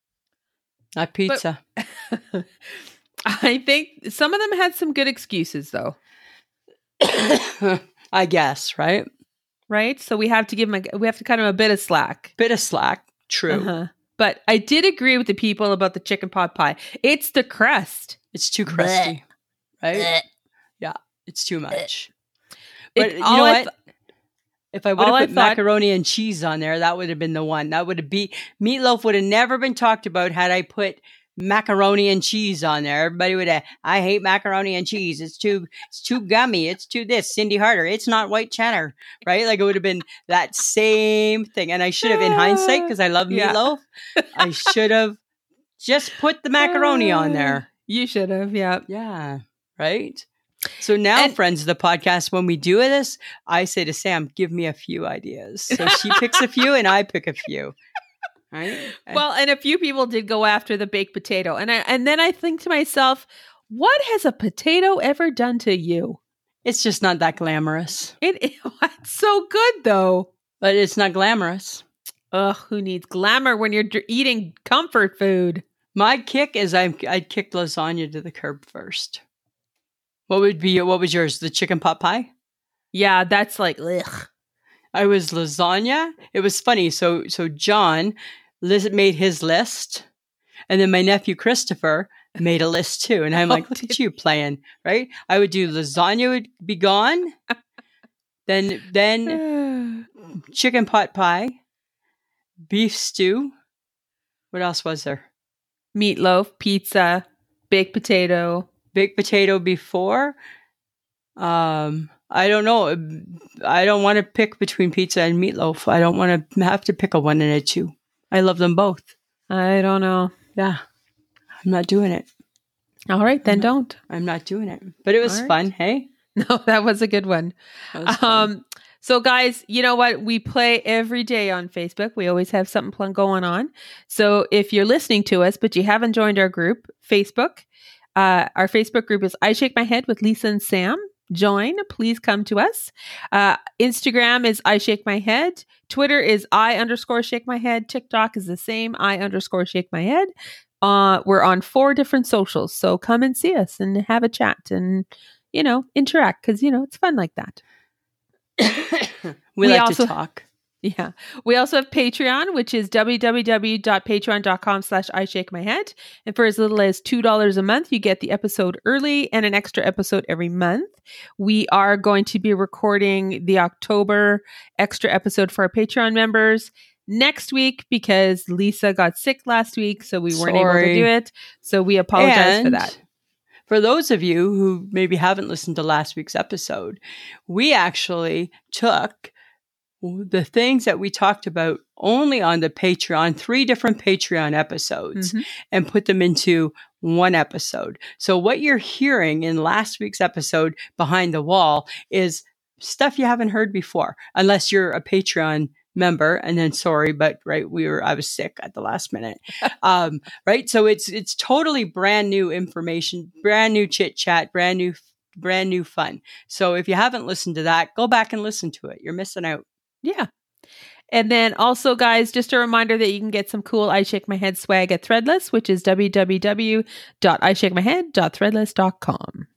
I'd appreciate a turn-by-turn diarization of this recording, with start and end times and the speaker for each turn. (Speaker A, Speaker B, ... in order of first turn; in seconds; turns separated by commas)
Speaker A: 0.9-1.6, Speaker B: 1.3-6.0, Speaker A: 7.0-9.1, Speaker B: 9.7-12.3, Speaker A: 12.4-13.7, Speaker B: 13.5-19.1, Speaker A: 18.3-19.2, Speaker A: 19.8-20.1, Speaker B: 19.9-20.2, Speaker A: 20.8-22.1, Speaker B: 22.9-23.7, Speaker A: 22.9-23.7, Speaker A: 24.7-45.2, Speaker B: 25.0-25.6, Speaker B: 42.0-43.6, Speaker B: 44.2-44.7, Speaker A: 45.8-47.7, Speaker B: 46.6-48.9, Speaker A: 48.9-50.2, Speaker A: 50.8-57.8, Speaker B: 55.7-56.4, Speaker A: 58.5-59.2, Speaker B: 59.0-66.2, Speaker A: 66.6-68.1, Speaker B: 68.2-70.3, Speaker A: 70.6-71.8, Speaker B: 72.3-75.6, Speaker A: 75.9-79.2, Speaker A: 80.3-82.3, Speaker B: 82.9-84.3, Speaker A: 84.9-90.0, Speaker A: 90.7-97.3, Speaker B: 93.4-94.0, Speaker A: 98.5-99.4, Speaker B: 99.3-100.0, Speaker A: 100.5-101.6, Speaker A: 102.7-103.5, Speaker A: 104.5-105.2, Speaker B: 105.9-108.7, Speaker A: 108.9-110.3, Speaker A: 111.4-119.1, Speaker B: 119.5-120.3, Speaker A: 121.6-122.3, Speaker B: 123.1-124.0, Speaker A: 123.4-126.1, Speaker B: 125.2-125.5, Speaker B: 126.3-150.3, Speaker A: 127.9-128.5, Speaker B: 150.8-157.6, Speaker A: 158.6-160.4, Speaker B: 159.6-160.1, Speaker B: 160.8-182.9, Speaker A: 180.3-181.1, Speaker A: 182.1-183.0, Speaker A: 183.7-189.3, Speaker A: 190.0-219.6, Speaker B: 195.2-195.4, Speaker B: 220.0-220.3, Speaker B: 221.1-229.5